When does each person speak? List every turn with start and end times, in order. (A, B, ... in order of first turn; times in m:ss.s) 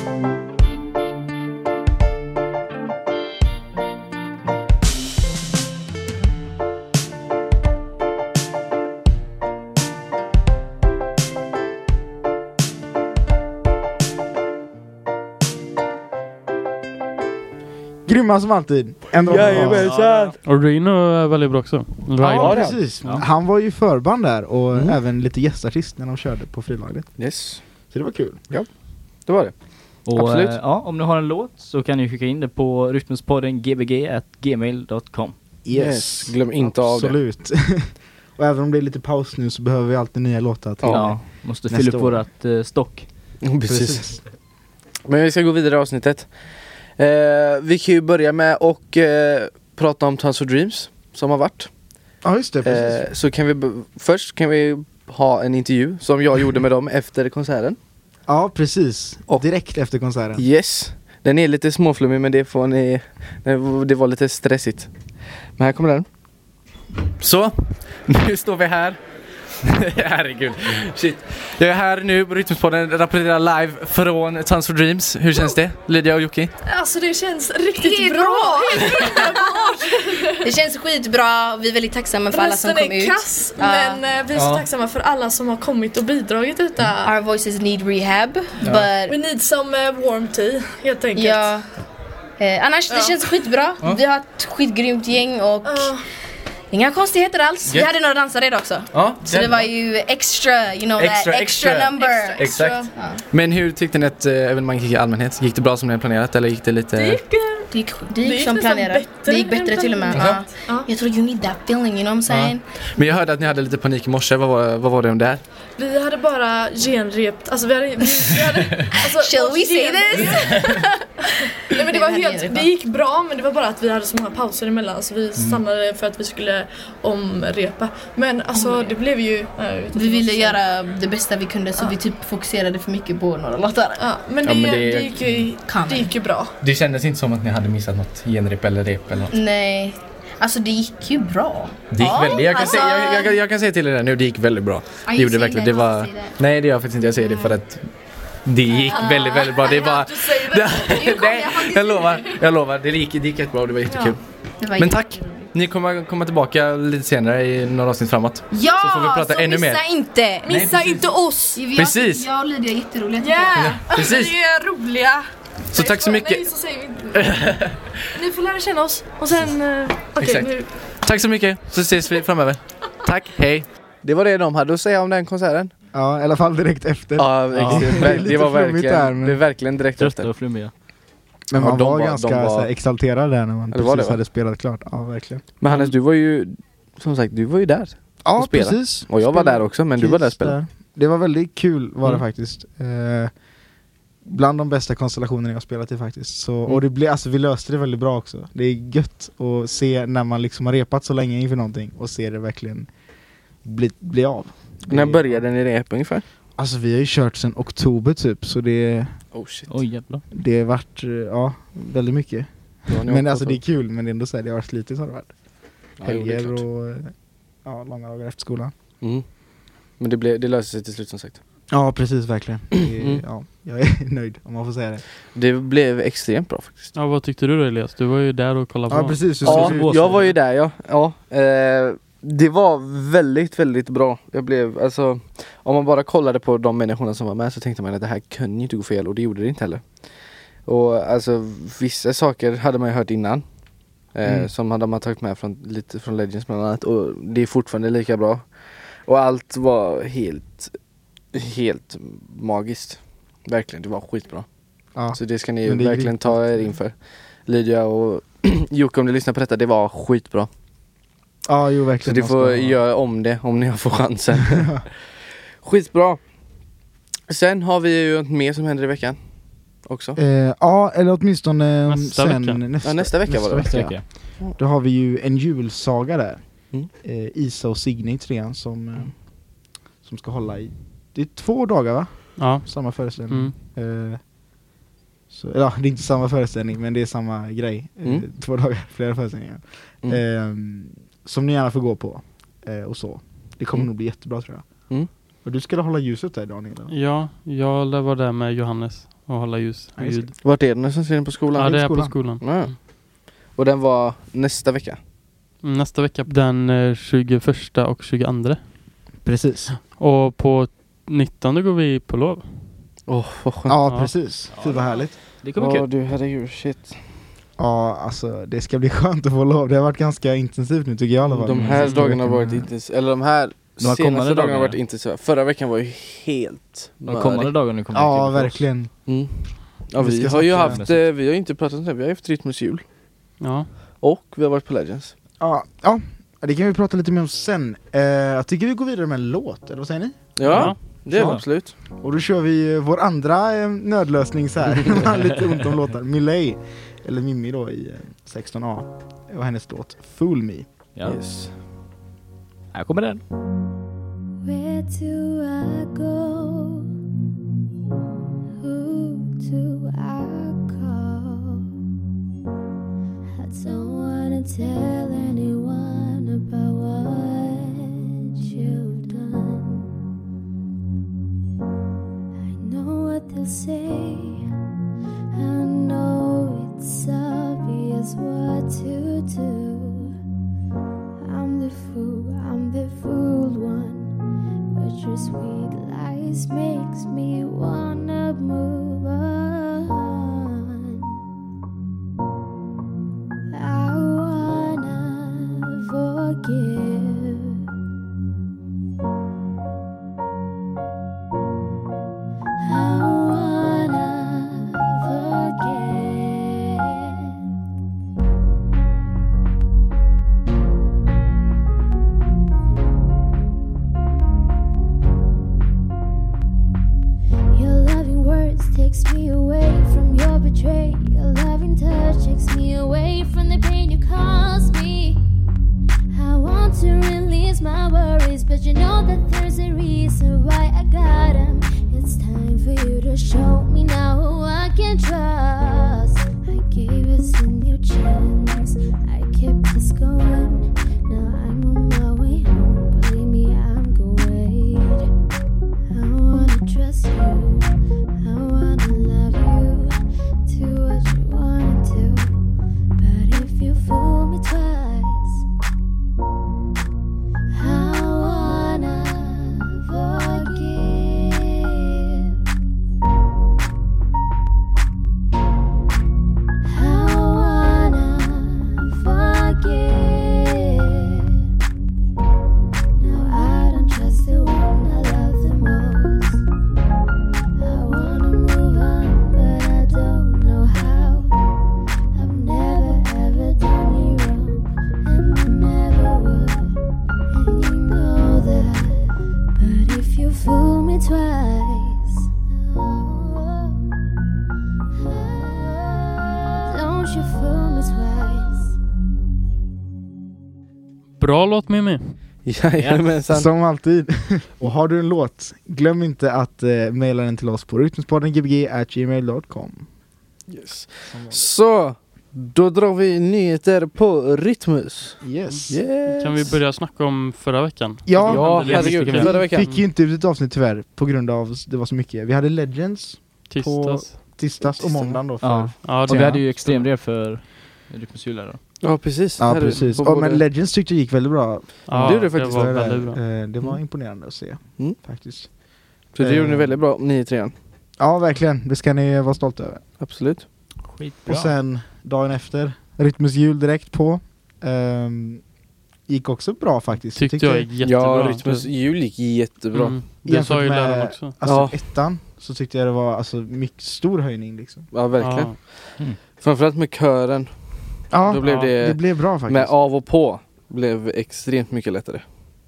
0:18.0-0:19.9 A
0:19.2-0:20.4 B
0:19.3-0:23.2 C
0:22.2-0:27.2 A
0:22.4-0:22.9 B
0:22.9-0:23.2 D
0:27.2-0:27.6 B
0:27.9-0:28.4 A
0:28.5-0:30.6 B
0:30.0-0:35.4 D
0:35.6-0:42.2 A
0:35.7-0:37.2 B
0:40.8-0:41.2 B
0:40.9-0:43.3 D
0:43.4-0:44.1 B
0:43.6-0:44.2 A
0:45.0-0:51.7 B
0:52.2-0:53.0 A
0:52.6-0:57.8 B
0:58.3-1:00.4 A
1:00.4-1:04.9 B
1:05.6-1:06.1 B
1:07.2-1:09.0 B
1:09.6-1:16.5 B
1:16.6-1:20.5 E
1:17.8-1:19.7 F
1:20.4-1:24.0 F
1:22.3-1:27.1 E
1:24.3-1:24.6 B
1:27.0-1:29.2 F
1:28.6-1:28.9 B
1:29.0-1:31.5 E
1:31.1-1:31.7 F
1:32.4-1:35.9 F
1:32.9-1:33.5 E
1:35.6-1:36.0 E
1:36.7-1:43.2 F
1:38.9-1:39.7 B
1:41.0-1:47.2 B
1:41.8-1:42.9 E
1:46.9-1:47.7 E
1:47.7-1:52.6 F
1:48.2-1:50.9 E
1:50.1-1:50.4 B
1:52.3-1:55.4 B
1:55.8-2:00.9 E
1:58.9-2:01.0 F
2:01.7-2:10.6 E
2:01.7-2:02.7 F
2:08.5-2:09.0 F
2:09.9-2:14.0 F
2:14.0-2:16.5 E
2:14.4-2:15.4 B
2:15.6-2:16.2 F
2:16.6-2:19.3 B
2:19.3-2:23.4 F
2:21.9-2:34.2 B
2:25.0-2:26.4 F
2:27.2-2:27.5 F
2:28.6-2:32.2 F
2:29.7-2:31.1 E
2:33.9-2:34.2 E
2:34.1-2:35.5 F
2:34.8-2:39.8 B
2:38.5-2:43.8 F
2:40.4-2:41.6 E
2:40.5-2:41.0 B
2:41.7-2:42.3 B
2:43.2-2:45.2 E
2:43.6-2:44.3 B
2:45.7-2:46.5 B
2:45.7-2:47.5 E
2:47.1-2:47.9 B
2:48.1-2:50.9 E
2:50.2-2:55.7 B
2:55.9-2:59.4 A
2:57.2-3:00.3 B
2:57.5-2:58.4 D
3:00.0-3:00.7 D
3:01.5-3:05.4 A
3:01.6-3:02.7 B
3:03.7-3:04.2 B
3:05.6-3:10.6 B
3:05.7-3:05.9 D
3:08.2-3:13.3 A
3:14.2-3:22.9 A
3:23.6-3:25.4 A
3:24.9-3:26.2 B
3:26.6-3:29.2 A
3:29.3-3:29.7 B
3:29.7-3:30.2 D
3:30.3-3:35.4 A
3:32.9-3:33.6 B
3:35.9-3:37.1 A
3:36.0-3:36.6 B
3:37.6-3:38.7 A
3:39.0-3:39.2 B
3:40.0-3:41.4 B
3:41.7-3:45.0 A
3:42.9-3:43.2 B
3:45.3-3:46.9 B
3:46.9-3:49.4 C
3:48.9-3:50.3 A
3:49.4-3:50.4 D
3:49.4-4:03.5 B
4:04.0-4:10.7 B
4:11.3-4:14.5 B
4:14.9-4:16.8 A
4:15.1-4:20.5 B
4:21.4-4:22.8 A
4:22.0-4:25.1 B
4:25.6-4:26.3 B
4:27.3-4:30.2 B
4:30.2-4:44.2 A
4:31.9-4:32.8 C
4:32.8-4:33.8 B
4:33.6-4:34.1 D
4:42.4-4:43.6 C
4:45.3-4:54.9 A
4:55.4-4:56.9 A
4:56.9-5:00.3 C
5:00.0-5:00.3 A
5:00.4-5:05.0 B
5:01.6-5:02.7 C
5:01.6-5:02.2 A
5:05.6-5:09.0 C
5:09.2-5:09.8 A
5:09.7-5:12.9 C
5:13.0-5:13.7 B
5:13.6-5:15.2 A
5:13.8-5:14.1 C
5:14.5-5:15.8 D
5:15.5-5:17.0 B
5:17.6-5:22.7 A
5:21.3-5:27.5 B
5:21.4-5:22.2 D
5:23.8-5:24.8 D
5:27.1-5:28.7 D
5:27.9-5:28.9 A
5:29.0-5:32.8 B
5:30.0-5:30.8 A
5:30.4-5:31.1 D
5:33.4-5:33.7 C
5:34.0-5:35.1 B
5:35.4-5:41.4 A
5:40.4-5:41.7 B
5:40.5-5:41.0 C
5:41.1-5:41.4 D
5:42.0-5:50.7 A
5:50.9-5:51.2 D
5:51.0-5:51.5 B
5:52.7-5:53.2 D
5:54.4-5:56.9 G
5:58.6-6:01.6 G
6:03.3-6:09.9 G
6:12.4-6:14.4 G
6:15.3-6:20.1 G
6:21.2-6:24.1 G
6:24.7-6:31.1 G
6:33.5-6:37.6 G
6:42.6-6:47.0 G
6:57.5-7:05.2 G
7:06.1-7:25.1 G
7:25.9-7:32.3 G
7:33.0-7:35.4 G
7:37.5-7:42.3 G
7:46.6-7:51.2 G
7:53.0-7:56.4 G
7:57.6-8:01.3 G
8:02.1-8:06.8 G
8:07.3-8:12.1 G
8:12.7-8:13.8 G
8:15.1-8:18.8 G
8:21.2-8:22.2 C
8:22.4-8:23.5 B
8:22.8-8:23.2 D
8:23.3-8:29.9 A
8:30.5-8:36.6 B
8:31.1-8:31.5 A
8:35.2-8:35.8 A
8:35.4-8:39.8 C
8:38.0-8:46.8 A
8:38.3-8:39.7 B
8:43.5-8:44.4 C
8:44.6-8:45.2 B
8:45.4-8:48.6 D
8:45.8-8:46.5 C
8:48.8-8:50.4 B
8:49.4-8:56.8 A
8:49.5-8:50.0 C
8:51.9-8:53.3 C
8:51.9-8:52.5 B
8:56.1-8:57.5 B
8:58.0-8:59.8 A
9:00.0-9:00.5 B
9:00.8-9:01.5 D
9:01.2-9:05.4 A
9:06.0-9:07.7 A
9:07.1-9:08.7 C
9:07.8-9:10.1 B
9:09.7-9:11.4 C
9:10.2-9:14.9 A
9:11.4-9:11.8 B
9:14.9-9:22.2 B
9:15.1-9:15.6 C
9:18.1-9:19.8 A
9:18.4-9:18.8 C